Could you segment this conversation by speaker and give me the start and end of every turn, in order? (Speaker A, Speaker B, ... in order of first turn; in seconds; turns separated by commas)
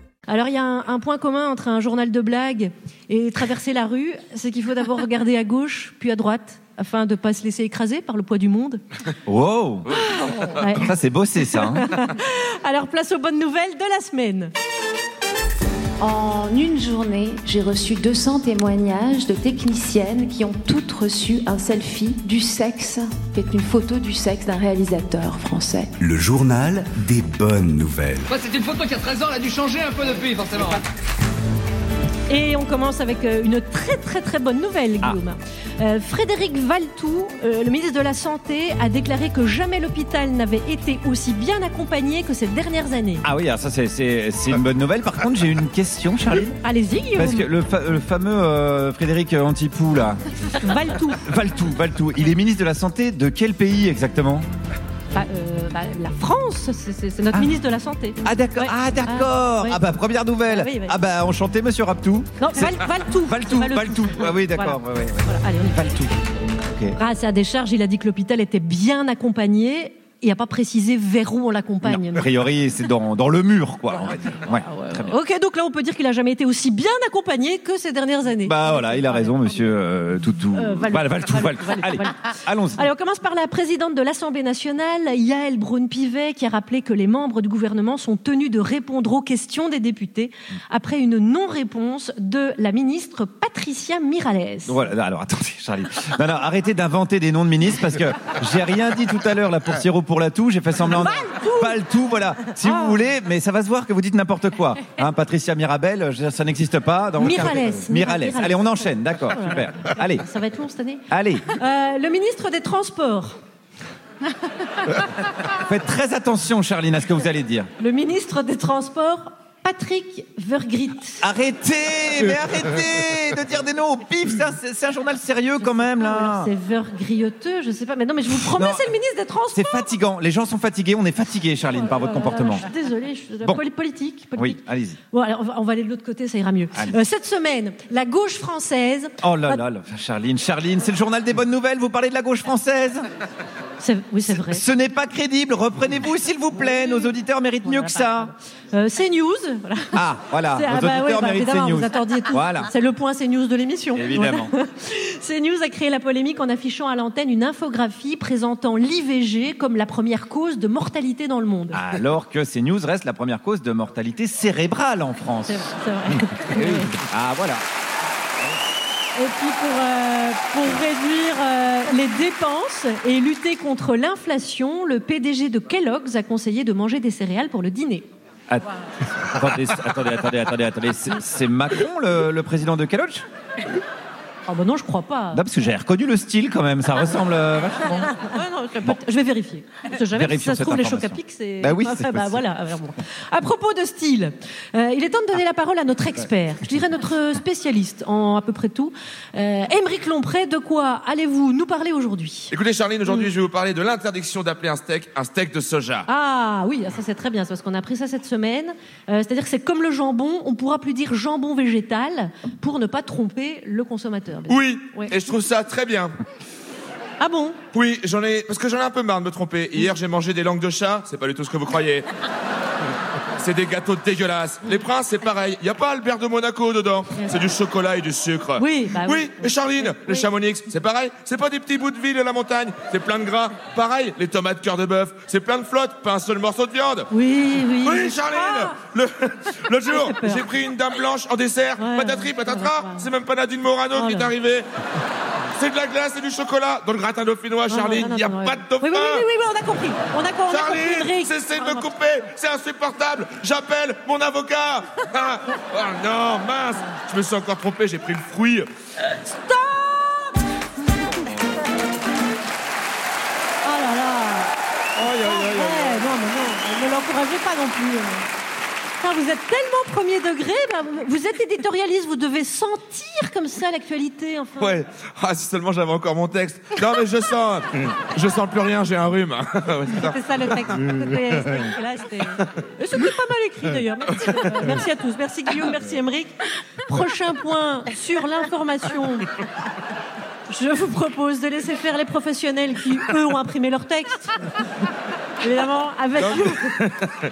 Speaker A: 0.3-8.8, Speaker B: 9.3-10.0, Speaker A: 10.0-14.5, Speaker B: 10.7-12.0, Speaker C: 16.0-25.9, Speaker D: 26.0-28.3, Speaker E: 28.3-30.9, Speaker A: 32.3-43.2, Speaker B: 43.2-46.6, Speaker A: 46.6-47.5, Speaker B: 47.1-54.5, Speaker A: 50.6-51.2, Speaker A: 55.1-59.8, Speaker B: 58.2-67.0, Speaker A: 60.5-61.0, Speaker A: 62.4-66.1, Speaker A: 67.0-72.3, Speaker B: 71.8-75.2, Speaker A: 74.1-79.8, Speaker B: 78.4-82.9, Speaker A: 80.5-94.9, Speaker B: 94.7-110.3, Speaker A: 100.9-101.8, Speaker A: 102.6-103.0, Speaker A: 107.2-113.4, Speaker B: 111.1-111.5, Speaker B: 115.5-117.7, Speaker A: 117.8-121.2, Speaker B: 121.2-126.5, Speaker A: 125.6-129.9, Speaker B: 128.4-128.9, Speaker B: 129.5-132.7, Speaker A: 131.7-139.6, Speaker B: 134.4-135.0, Speaker B: 139.2-143.0, Speaker A: 143.8-144.6, Speaker B: 144.3-148.3, Speaker A: 146.6-147.1, Speaker A: 147.6-162.0, Speaker B: 149.9-152.7, Speaker B: 153.9-154.5, Speaker B: 161.7-167.6, Speaker A: 165.5-167.0, Speaker A: 169.2-178.1, Speaker B: 178.5-183.3, Speaker A: 184.5-185.4, Speaker B: 185.3-188.2, Speaker A: 188.0-202.5, Speaker B: 190.1-192.4, Speaker F: 202.5-206.1, Speaker A: 206.1-215.1, Speaker F: 214.5-216.1, Speaker A: 217.2-217.6, Speaker F: 217.7-222.1, Speaker F: 223.4-237.1, Speaker A: 227.1-227.4, Speaker A: 228.6-230.3, Speaker A: 237.1-238.8, Speaker F: 237.8-244.7, Speaker A: 239.8-240.5, Speaker A: 241.8-243.1, Speaker A: 243.9-244.3, Speaker F: 245.6-249.3, Speaker A: 247.7-251.9, Speaker F: 250.5-258.7, Speaker A: 259.2-260.4, Speaker A: 263.6-264.5, Speaker F: 265.0-266.1, Speaker A: 265.1-268.3, Speaker A: 269.0-274.8, Speaker F: 274.6-280.7, Speaker A: 279.9-289.3, Speaker A: 290.5-294.4, Speaker A: 295.4-296.8, Speaker F: 296.2-297.1